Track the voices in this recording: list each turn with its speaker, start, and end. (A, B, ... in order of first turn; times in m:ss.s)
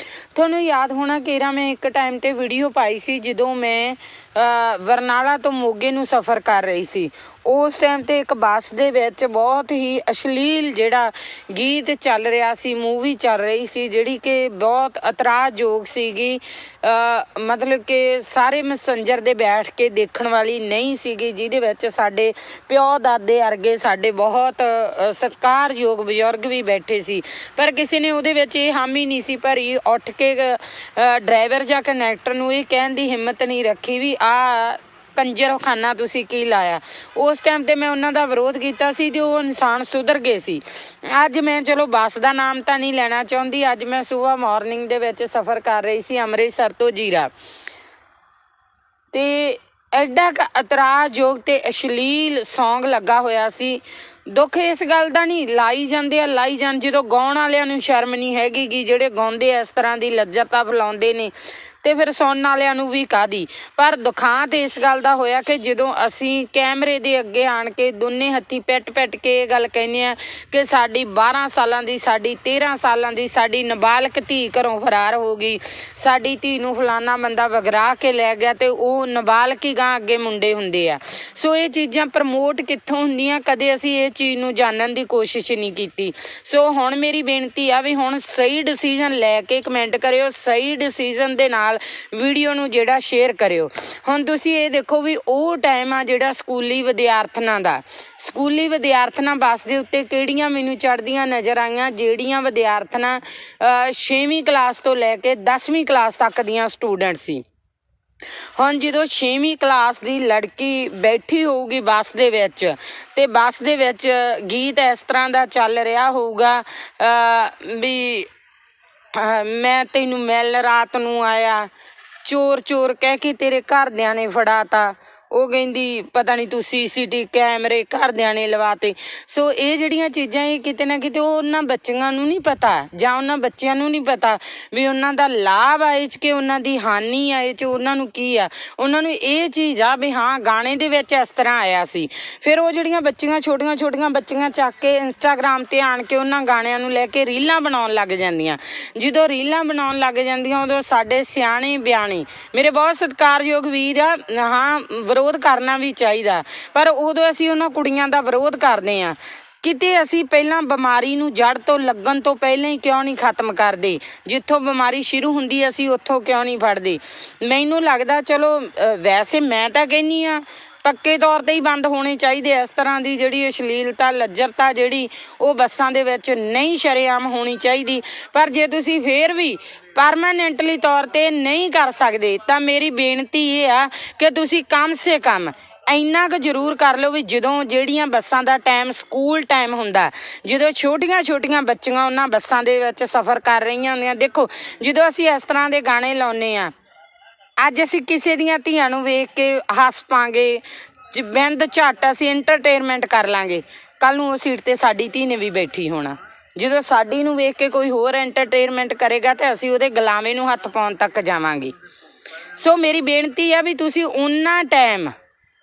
0:00.3-0:47.3 A
0:49.1-1:47.4 A
1:48.6-1:58.3 A
1:59.1-2:01.7 A
2:02.2-3:16.7 A
3:17.6-3:31.7 A
3:32.6-3:35.1 A